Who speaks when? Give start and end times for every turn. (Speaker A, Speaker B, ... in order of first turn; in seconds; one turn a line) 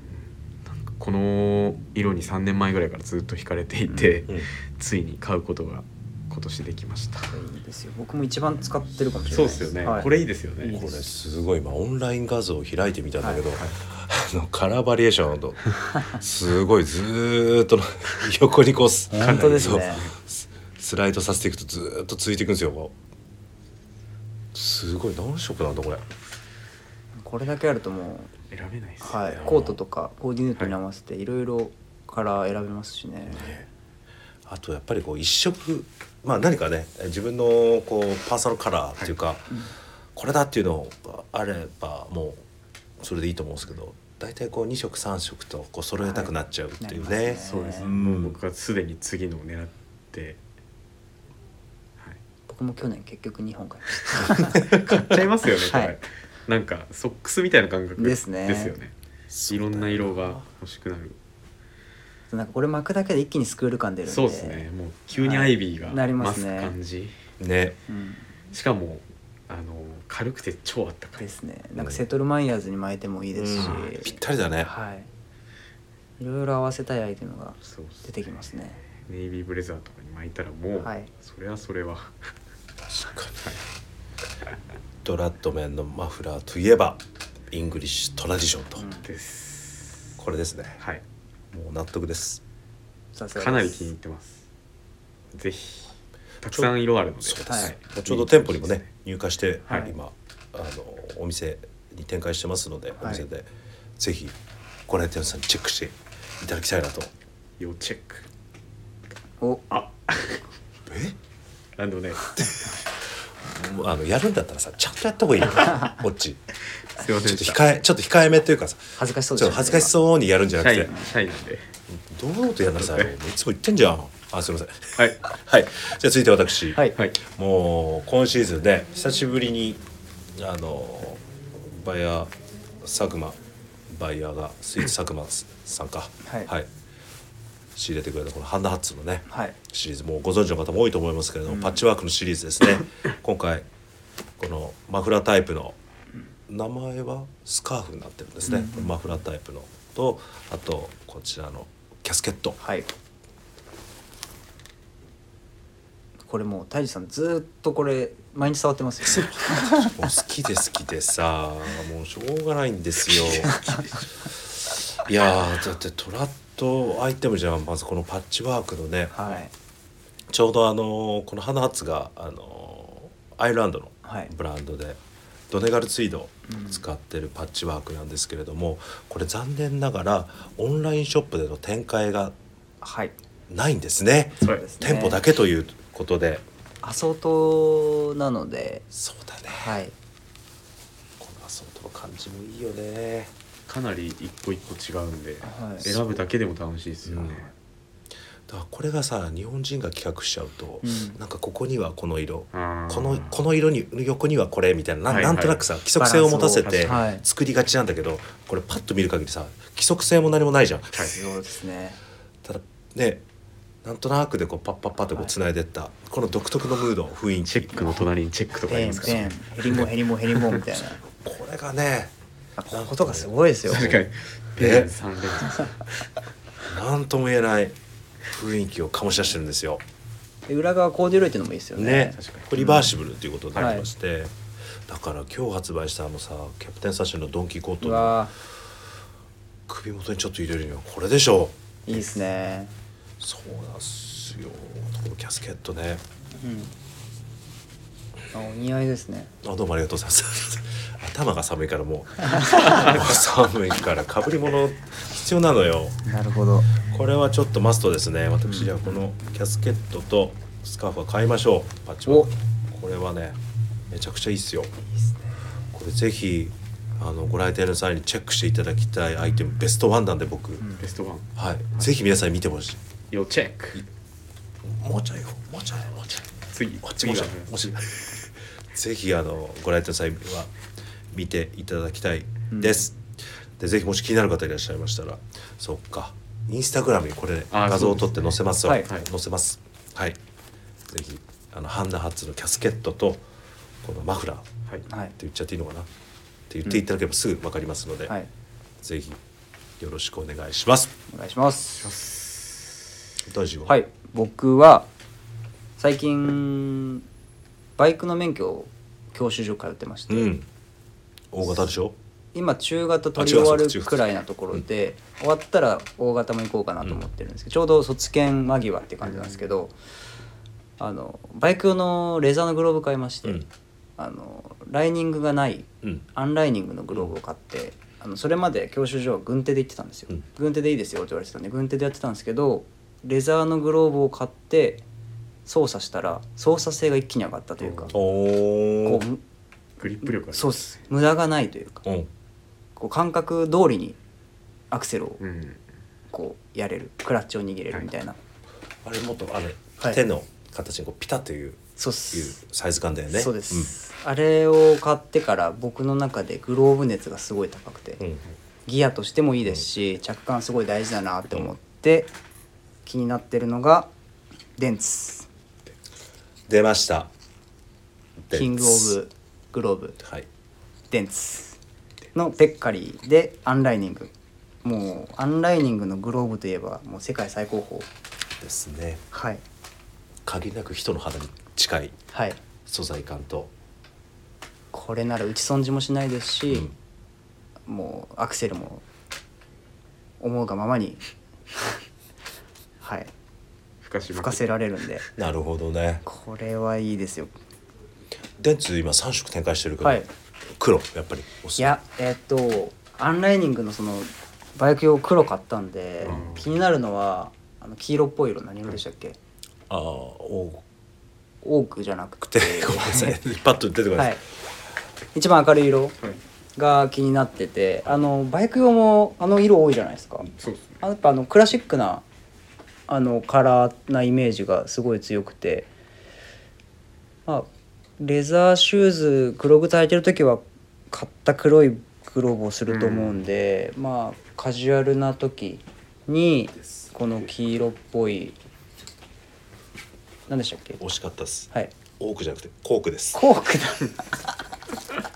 Speaker A: 0.7-7.3
Speaker B: 3.9-4.2
Speaker B: 7.3-10.1
Speaker A: 9.3-10.8
Speaker B: 10.6-11.1
Speaker C: 10.7-22.9
Speaker B: 19.1-20.1
Speaker A: 19.2-20.1
Speaker C: 24.5-26.0
Speaker B: 27.2-28.3
Speaker A: 28.5-29.7
Speaker B: 29.0-33.5
Speaker C: 29.4-29.8
Speaker C: 33.3-33.6
Speaker C: 34.5-39.5
Speaker C: 40.1-42.4
Speaker C: 43.0-48.4
Speaker B: 46.0-48.0
Speaker A: 47.4-50.4
Speaker B: 52.5-54.7
Speaker C: 54.5-55.2
Speaker A: 54.6-58.9
Speaker B: 55.6-55.9
Speaker B: 58.0-58.7
Speaker C: 59.3-60.4
Speaker A: 59.5-61.2
Speaker B: 62.3-66.7
Speaker A: 64.0-67.2
Speaker C: 67.4-67.8
Speaker B: 67.9-68.3
Speaker A: 68.5-71.3
Speaker B: 71.2-75.1
Speaker C: 73.3-74.7
Speaker B: 76.2-78.8
Speaker A: 77.6-78.1
Speaker A: 79.0-82.3
Speaker B: 80.8-81.1
Speaker C: 82.9-83.4
Speaker C: 85.0-88.8
Speaker B: 88.8-89.1
Speaker A: 89.0-90.0
Speaker C: 90.2-90.8
Speaker C: 91.5-92.4
Speaker B: 93.1-93.9
Speaker A: 93.3-94.4
Speaker A: 95.3-98.9
Speaker C: 96.5-104.4
Speaker B: 97.5-97.7
Speaker B: 99.7-99.9
Speaker C: 104.9-107.1
Speaker A: 107.6-108.2
Speaker B: 109.4-109.7
Speaker A: 109.7-110.4
Speaker C: 110.9-111.2
Speaker A: 111.8-112.7
Speaker C: 113.2-116.4
Speaker A: 116.9-117.6
Speaker C: 117.2-120.9
Speaker B: 119.0-119.9
Speaker A: 120.6-121.7
Speaker C: 121.9-129.8
Speaker A: 122.8-123.1
Speaker C: 130.3-136.7
Speaker B: 136.2-136.5
Speaker C: 137.7-143.7
Speaker B: 139.3-139.6
Speaker B: 141.5-141.8
Speaker C: 144.4-145.8
Speaker C: 146.5-152.6
Speaker B: 148.4-148.9
Speaker B: 152.6-152.9
Speaker B: 156.3-159.9
Speaker C: 159.1-164.0
Speaker B: 163.3-163.9
Speaker C: 164.6-169.4
Speaker B: 169.1-169.5
Speaker C: 170.3-182.3
Speaker B: 174.0-174.3
Speaker B: 176.5-176.8
Speaker B: 182.8-183.2
Speaker C: 183.5-186.4
Speaker B: 184.5-185.2
Speaker B: 186.8-188.8
Speaker C: 188.9-189.7
Speaker B: 189.5-189.9
Speaker C: 191.2-193.3
Speaker A: 193.7-197.5
Speaker B: 195.4-195.9
Speaker C: 197.1-197.4
Speaker C: 198.5-211.2
Speaker B: 200.8-201.2
Speaker A: 202.5-203.4
Speaker A: 205.1-205.7
Speaker B: 206.0-207.2
Speaker A: 206.6-207.1
Speaker B: 211.0-212.0
Speaker C: 212.4-213.2
Speaker C: 213.8-217.8
Speaker A: 217.5-220.6
Speaker B: 218.7-221.0
Speaker C: 221.2-222.1
Speaker B: 222.6-224.0
Speaker C: 222.7-223.3
Speaker A: 223.7-226.1
Speaker C: 224.6-224.9
Speaker C: 226.6-227.8
Speaker C: 228.3-229.8
Speaker B: 230.5-232.9
Speaker C: 231.8-234.3
Speaker A: 232.2-232.7
Speaker B: 233.5-233.9
Speaker C: 234.9-238.2
Speaker B: 237.8-238.3
Speaker C: 239.7-242.1
Speaker B: 241.8-242.7
Speaker C: 243.2-246.0
Speaker B: 246.4-246.7
Speaker B: 248.3-249.3
Speaker C: 249.4-256.0
Speaker B: 252.3-252.9
Speaker A: 252.4-253.1
Speaker B: 256.0-256.8
Speaker C: 256.8-263.4
Speaker B: 258.5-258.8
Speaker C: 263.9-264.7
Speaker B: 265.0-265.3
Speaker C: 265.7-270.7
Speaker A: 270.8-271.3
Speaker C: 271.4-272.8
Speaker A: 273.1-273.8
Speaker C: 274.6-276.3
Speaker A: 276.5-277.7
Speaker C: 276.8-280.5
Speaker C: 281.1-283.0
Speaker B: 282.5-282.9
Speaker C: 283.6-290.2
Speaker A: 287.5-288.1
Speaker C: 290.9-293.2
Speaker C: 293.8-294.5
Speaker B: 294.9-295.1
Speaker C: 295.2-295.9
Speaker C: 296.5-298.1
Speaker C: 298.8-299.2
Speaker C: 299.8-300.9
Speaker B: 301.1-301.9
Speaker A: 301.8-302.8
Speaker C: 303.2-303.7
Speaker B: 303.6-304.9
Speaker B: 305.8-307.0
Speaker B: 307.8-310.3
Speaker C: 310.1-310.4
Speaker C: 311.3-311.9
Speaker B: 312.3-319.7
Speaker C: 313.1-314.6
Speaker B: 320.8-323.4
Speaker B: 324.0-334.8
Speaker B: 335.4-337.9
Speaker A: 337.6-337.9
Speaker C: 337.9-339.0
Speaker B: 338.8-339.2
Speaker A: 339.8-340.8
Speaker B: 340.0-341.8
Speaker B: 342.8-344.0
Speaker B: 344.7-345.2
Speaker A: 345.2-345.6
Speaker B: 346.1-348.2
Speaker C: 348.8-353.7
Speaker B: 351.8-352.4
Speaker B: 353.1-358.0
Speaker B: 358.6-362.1
Speaker B: 362.8-363.9
Speaker B: 364.6-365.3
Speaker C: 366.5-367.1
Speaker C: 368.2-368.9
Speaker B: 368.3-370.0
Speaker C: 370.0-370.3
Speaker B: 370.9-371.6
Speaker B: 372.1-374.1
Speaker B: 374.6-377.9
Speaker C: 378.4-379.0
Speaker B: 379.1-379.4
Speaker C: 380.2-382.0
Speaker B: 382.1-382.4
Speaker C: 382.6-383.5
Speaker B: 384.7-386.7
Speaker B: 387.7-388.8
Speaker B: 390.2-391.0
Speaker B: 392.8-393.1
Speaker A: 393.8-394.4
Speaker B: 394.1-395.1
Speaker C: 395.1-396.0
Speaker B: 396.0-397.3
Speaker C: 398.4-401.8
Speaker B: 399.8-400.1
Speaker B: 401.6-409.2
Speaker A: 406.0-406.6
Speaker C: 409.7-410.6
Speaker B: 411.4-413.2
Speaker C: 412.3-414.2
Speaker B: 415.1-416.0
Speaker B: 416.6-422.0
Speaker A: 420.4-420.8
Speaker B: 422.9-425.7
Speaker B: 428.0-438.4
Speaker A: 432.7-433.2
Speaker B: 440.3-440.8
Speaker C: 440.8-443.2
Speaker B: 443.1-444.0